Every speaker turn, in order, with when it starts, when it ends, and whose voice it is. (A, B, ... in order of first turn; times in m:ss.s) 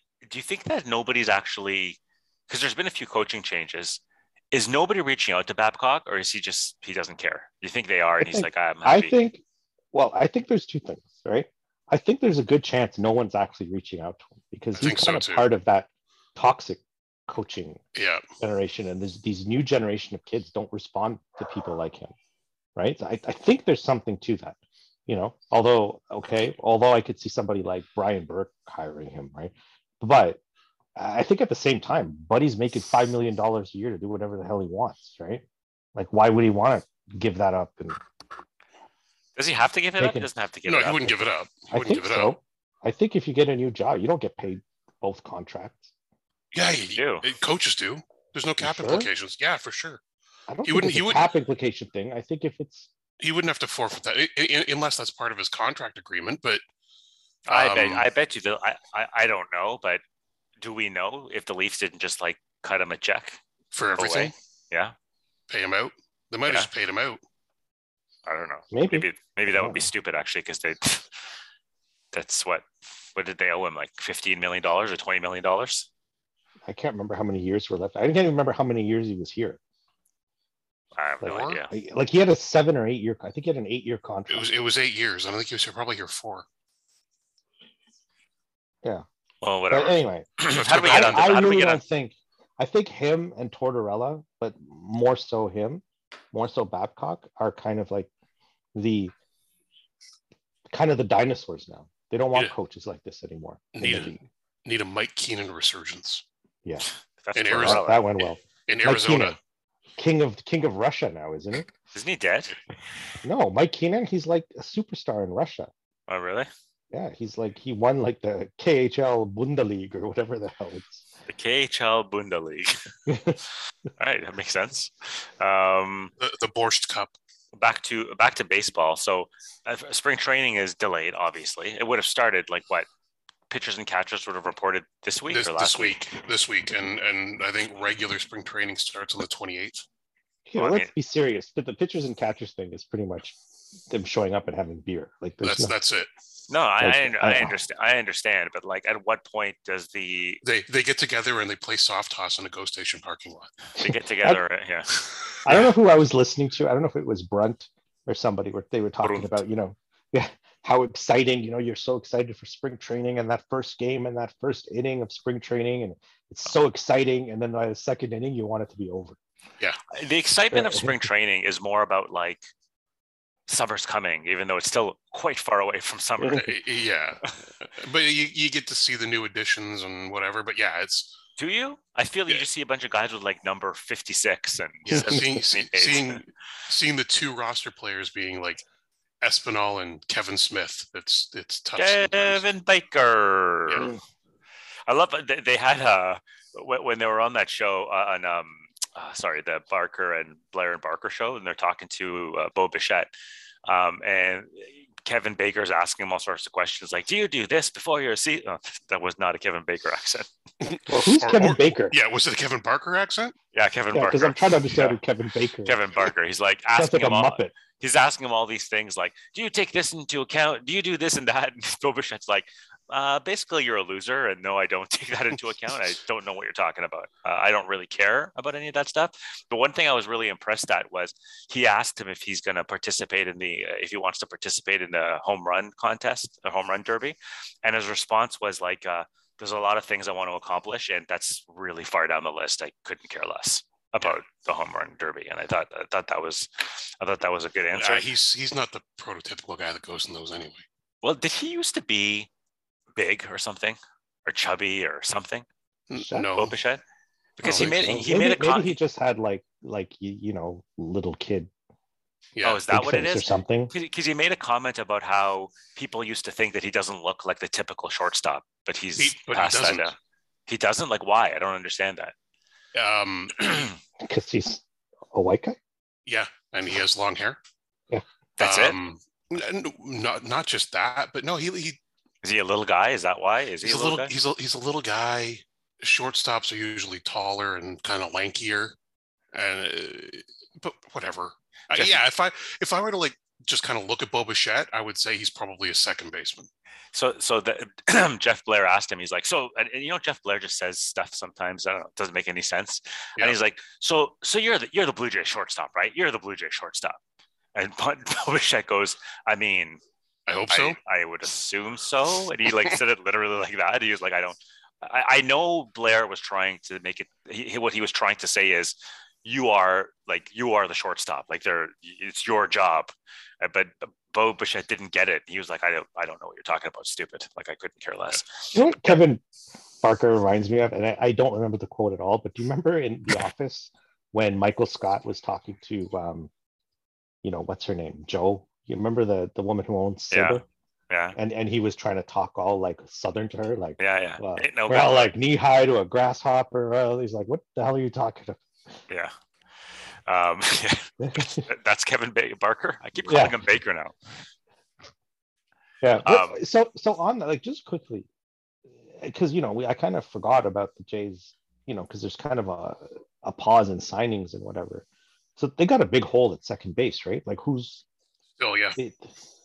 0:00.2-0:04.0 A
0:04.5-0:09.1 A
0:08.2-0:09.4 B
0:09.9-0:17.8 B
0:14.8-0:15.5 C
0:18.0-0:18.2 C
0:18.4-0:22.1 B
0:22.8-0:30.4 B
0:31.0-0:38.0 B
0:39.4-0:41.2 A
0:40.0-0:40.3 B
0:40.6-0:42.4 C
0:41.7-0:45.9 B
0:46.5-0:50.0 C
0:47.0-0:47.2 A
0:48.6-0:49.1 B
0:50.5-0:52.9 B
0:50.6-0:51.3 C
0:53.2-0:56.6 C
0:57.5-1:00.0 A
0:57.5-0:58.1 C
1:00.6-1:03.4 A
1:03.7-1:04.3 C
1:04.0-1:04.9 A
1:05.5-1:07.2 C
1:08.3-1:11.1 A
1:08.7-1:09.9 B
1:12.1-1:15.9 A
1:16.6-1:19.6 B
1:21.0-1:21.7 A
1:21.2-1:24.5 B
1:21.2-1:21.6 C
1:24.3-1:26.5 C
1:29.4-1:31.8 A
1:29.7-1:38.1 B
1:30.8-1:31.2 C
1:38.7-1:39.1 B
1:40.7-1:44.2 B
1:43.8-1:46.2 C
1:47.2-1:48.0 A
1:47.4-1:48.0 C
1:47.5-1:49.4 B
1:48.7-1:49.4 C
1:50.0-1:51.7 B
1:51.9-1:52.6 A
1:53.2-1:55.7 B
1:56.1-1:56.5 A
1:56.9-2:01.0 B
2:01.3-2:02.7 A
2:03.1-2:03.4 B
2:04.0-2:06.1 A
2:06.2-2:07.2 C
2:07.6-2:12.9 A
2:13.5-2:16.0 A
2:15.3-2:19.8 C
2:20.5-2:23.4 B
2:20.6-2:20.9 A
2:23.9-2:25.7 B
2:25.4-2:26.1 C
2:26.5-2:30.4 A
2:26.8-2:27.6 B
2:30.4-2:33.5 C
2:33.8-2:35.0 A
2:33.8-2:34.4 B
2:35.4-2:49.2 B
2:39.0-2:39.4 A
2:49.9-2:52.4 A
2:50.5-2:51.0 B
2:53.5-2:56.5 A
2:56.4-3:01.1 C
3:01.4-3:06.2 A
3:04.9-3:08.6 C
3:04.9-3:05.2 B
3:09.2-3:12.4 C
3:11.8-3:13.9 A
3:14.9-3:23.1 A
3:23.6-3:30.3 A
3:30.6-3:33.4 C
3:30.9-3:32.0 B
3:33.5-3:35.0 A
3:33.9-3:35.8 B
3:35.6-4:08.1 A
3:36.7-3:37.5 B
4:07.8-4:10.6 C
4:11.0-4:12.3 A
4:13.0-4:15.5 A
4:15.9-4:16.5 C
4:16.0-4:16.3 B
4:16.4-4:16.8 A
4:17.4-4:18.8 A
4:17.4-4:18.0 C
4:17.4-4:21.5 B
4:22.4-4:22.6 C
4:22.4-4:30.0 A
4:22.7-4:23.7 B
4:29.0-4:29.9 C
4:30.5-4:32.1 A
4:32.7-4:33.7 C
4:34.0-4:35.6 B
4:36.1-4:37.4 C
4:38.4-4:38.8 A
4:38.4-4:41.8 C
4:42.2-4:44.1 A
4:43.6-4:48.8 C
4:49.3-4:56.5 C
4:56.9-5:07.0 A
5:07.6-5:09.8 A
5:10.3-5:10.8 C
5:10.5-5:28.5 A
5:28.5-5:29.2 B
5:29.8-5:36.3 B
5:37.2-5:40.4 B
5:40.1-5:41.2 A
5:41.2-5:48.4 B
5:43.8-5:45.1 A
5:50.1-5:54.0 A
5:51.0-5:51.5 B
5:53.0-5:53.4 B
5:55.8-5:58.1 B
5:56.0-5:56.4 A
5:58.9-6:04.8 B
6:05.4-6:07.8 B
6:08.4-6:08.8 C
6:08.8-6:09.1 B